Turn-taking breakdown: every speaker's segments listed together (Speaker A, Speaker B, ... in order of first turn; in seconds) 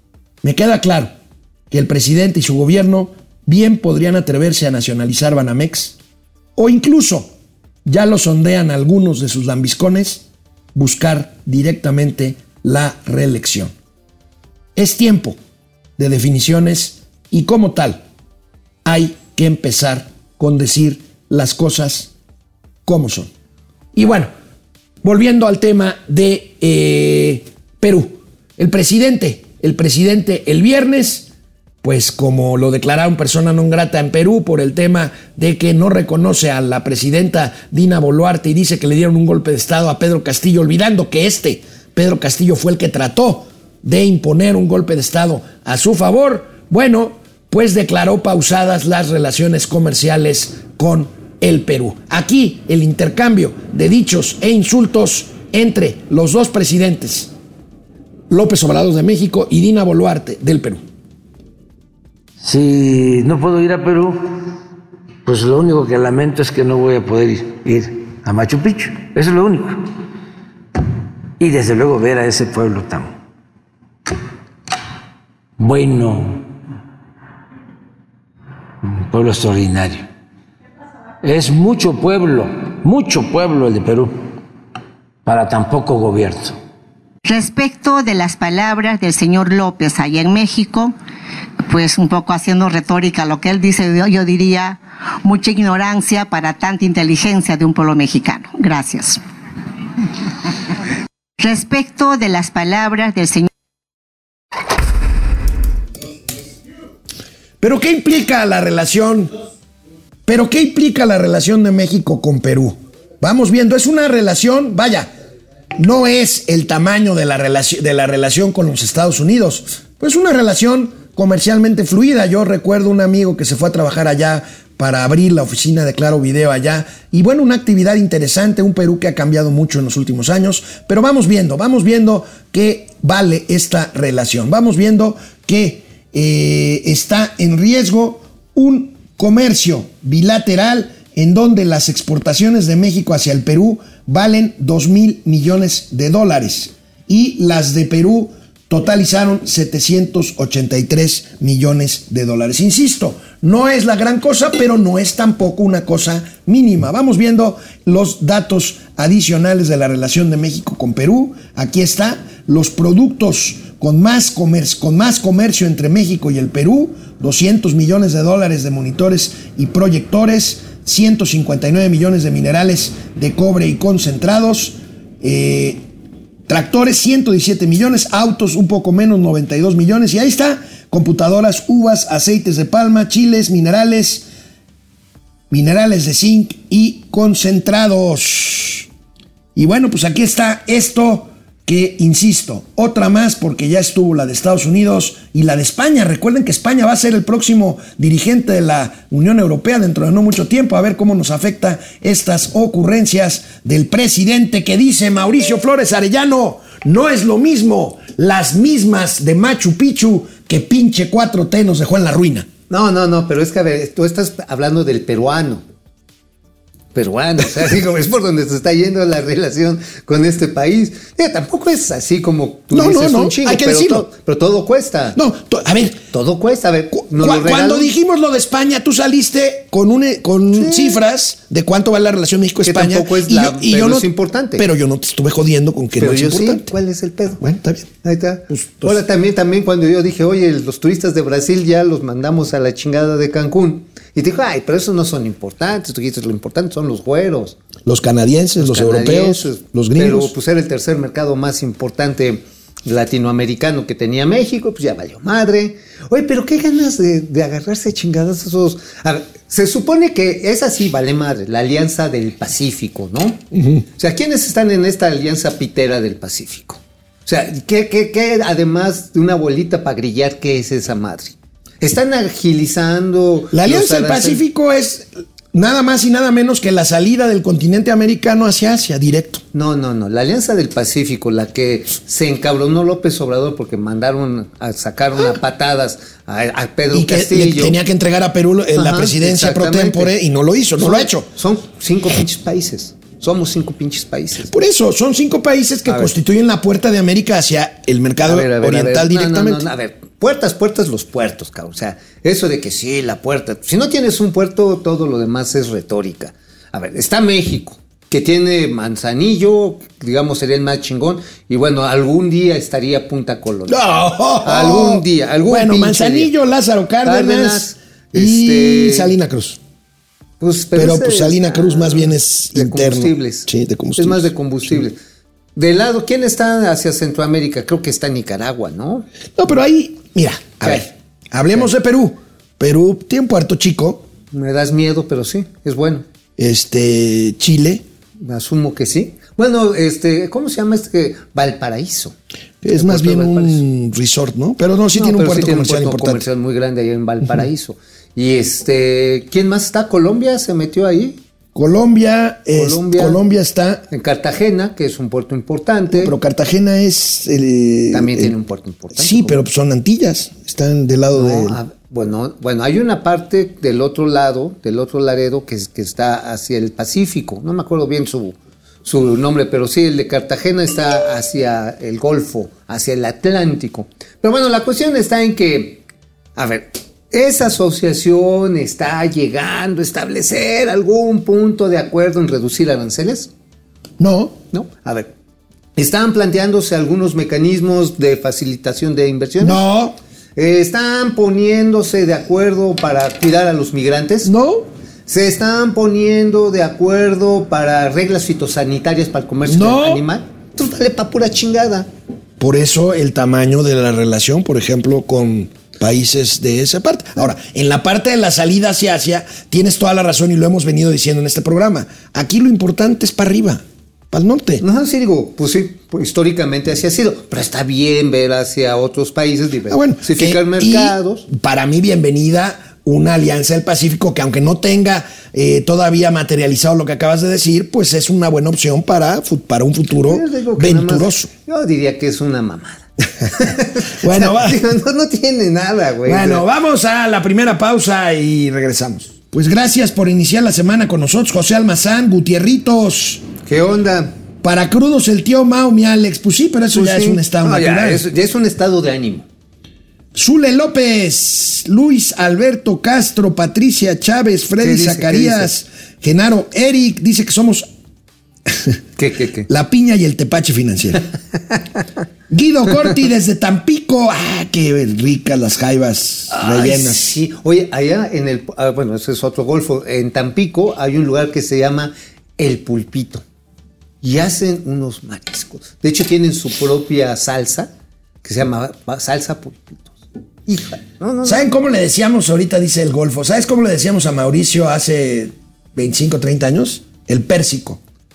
Speaker A: 0.4-1.1, 1.7-6.0, 6.6-7.3, 7.9-10.2, 10.8-13.7, 14.8-15.4, 16.0-18.0, 18.9-22.1, 22.9-23.3, 23.9-24.3, 25.0-31.3, 31.8-57.3, 58.3-60.8, 107.6-109.3, 110.3-115.1, 115.8-175.8, 176.5-184.3, 185.5-188.9, 189.6-212.5, 222.7-224.1, 225.1-226.0, 226.9-236.7, 237.4-237.9, 238.5-239.0, 247.9-250.3, 263.5-263.8, 273.5-279.4, 286.9-291.3, 294.5-299.7, 313.7-319.6, 320.8-324.3, 329.4-334.1, 336.4-337.8, 342.6-346.3, 351.6-353.8, 355.9-358.3, 358.9-361.6, 384.0-384.4, 389.4-390.0, 394.2-394.7, 399.5-400.0, 402.4-414.6, 419.7-431.3, 433.9-434.6, 436.1-443.3, 444.4-448.0, 450.1-457.7, 459.5-461.1, 462.3-467.2, 481.2-487.8
Speaker B: 62.4-64.5, 65.2-69.9, 71.4-73.1, 75.6-76.4, 78.8-80.0, 81.2-84.1, 85.2-86.6
Speaker C: 87.2-90.9, 91.7-99.2, 101.4-103.5
Speaker D: 212.7-215.6, 216.9-225.2, 226.1-227.9, 230.5-231.0, 232.6-234.6, 236.0-237.4, 238.0-247.6, 248.6-274.4, 279.5-287.8, 288.8-290.2, 290.8-294.5, 295.9-296.1, 298.2-313.8, 314.4-316.3, 317.0-319.1, 320.4-325.0, 325.6-329.1, 334.3-336.1, 338.2-342.2, 342.8-343.6, 344.9-351.2, 352.5-353.2, 353.9-356.1, 357.9-359.4, 361.1-375.8, 376.4-383.3, 384.5-385.1, 385.8-389.6, 390.4-394.3, 395.1-401.9, 414.6-421.3, 430.1-436.5, 443.4-444.1, 446.7-449.3, 454.6-455.5, 459.0-459.5, 466.3-473.2, 474.0-477.7, 478.2-479.9, 480.5-481.4